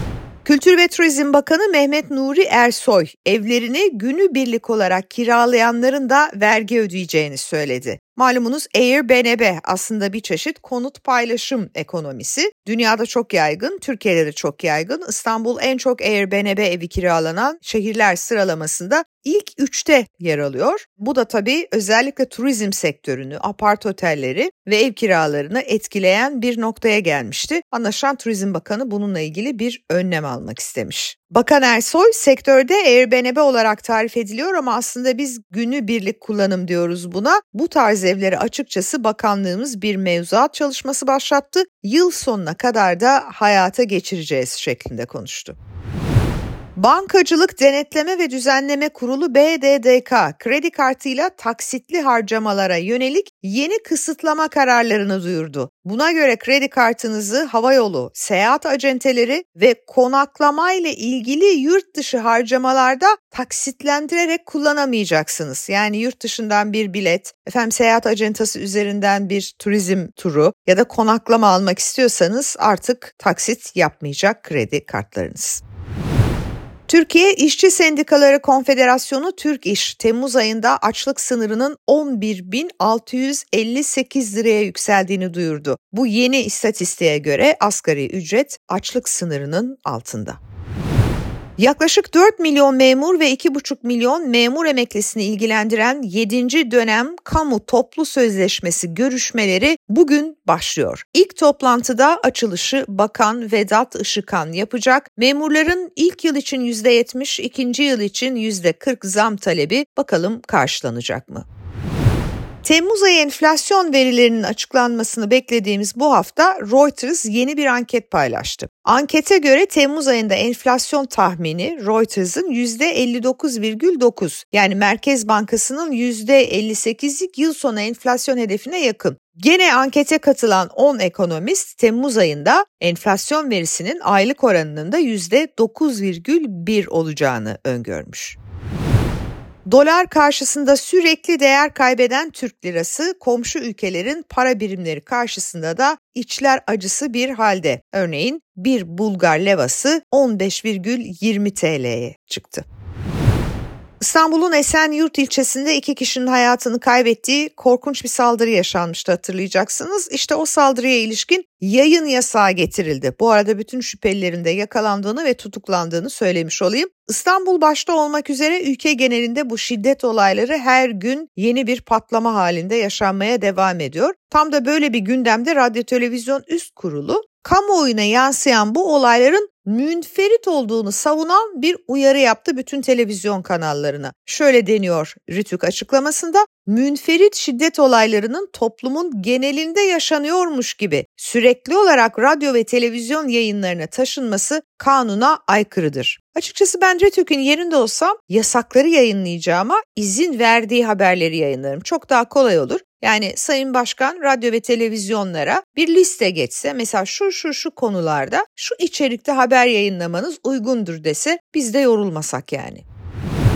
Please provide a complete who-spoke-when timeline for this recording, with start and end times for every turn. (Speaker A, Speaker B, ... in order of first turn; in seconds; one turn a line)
Speaker A: 0.5-45.6
Speaker A: 46.8-75.6
Speaker A: 76.9-90.4
Speaker A: 91.6-111.5
Speaker A: 112.6-138.4
Speaker A: 139.7-152.7
Speaker A: 154.0-212.8